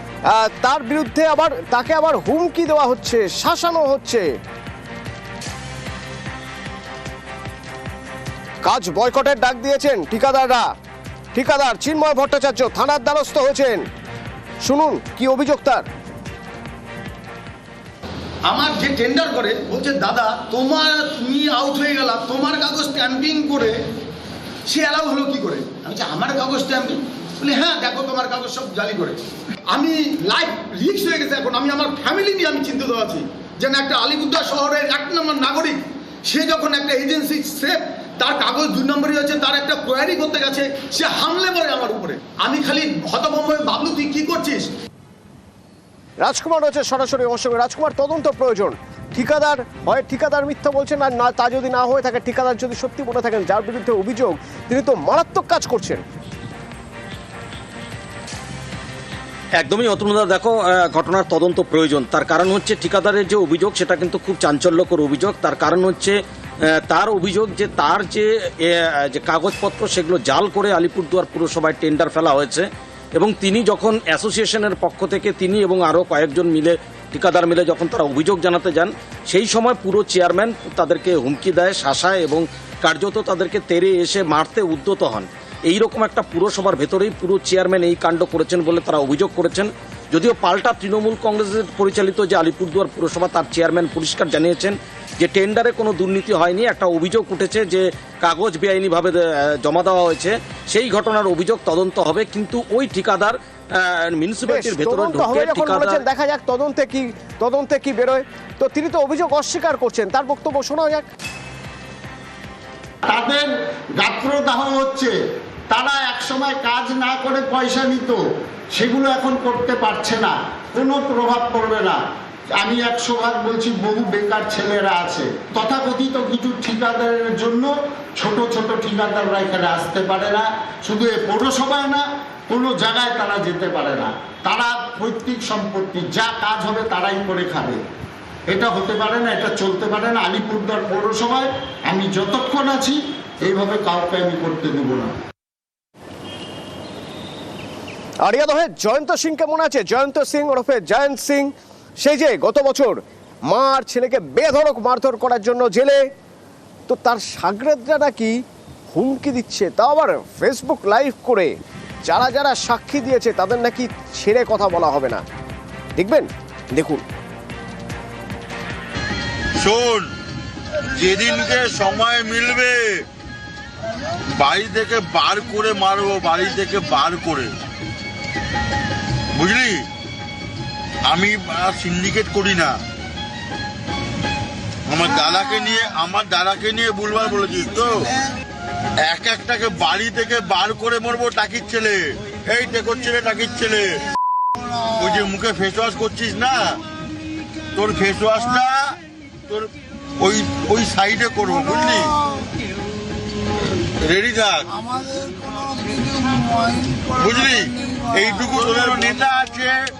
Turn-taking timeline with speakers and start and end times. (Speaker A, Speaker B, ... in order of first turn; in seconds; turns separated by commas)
Speaker A: 0.3-4.3, Speaker A: 8.6-10.7, Speaker A: 11.3-13.8, Speaker A: 14.6-15.8, Speaker B: 18.5-23.8, Speaker B: 24.7-44.7, Speaker A: 46.2-56.0, Speaker C: 59.6-66.2, Speaker C: 66.7-106.0, Speaker A: 104.5-111.1, Speaker D: 113.0-115.1, Speaker D: 115.7-122.0, Speaker D: 122.5-137.8, Speaker D: 138.5-145.2, Speaker A: 148.2-156.0, Speaker A: 156.9-158.4, Speaker A: 158.9-161.5, Speaker A: 162.0-165.2, Speaker A: 166.0-167.0, Speaker E: 169.6-170.1, Speaker E: 170.9-173.0, Speaker E: 174.4-177.5, Speaker E: 179.3-179.8, Speaker E: 181.1-182.7, Speaker E: 184.9-188.1, Speaker E: 189.0-194.0, Speaker E: 194.9-196.8, Speaker E: 197.7-202.1, Speaker E: 204.0-204.7, Speaker E: 207.1-209.7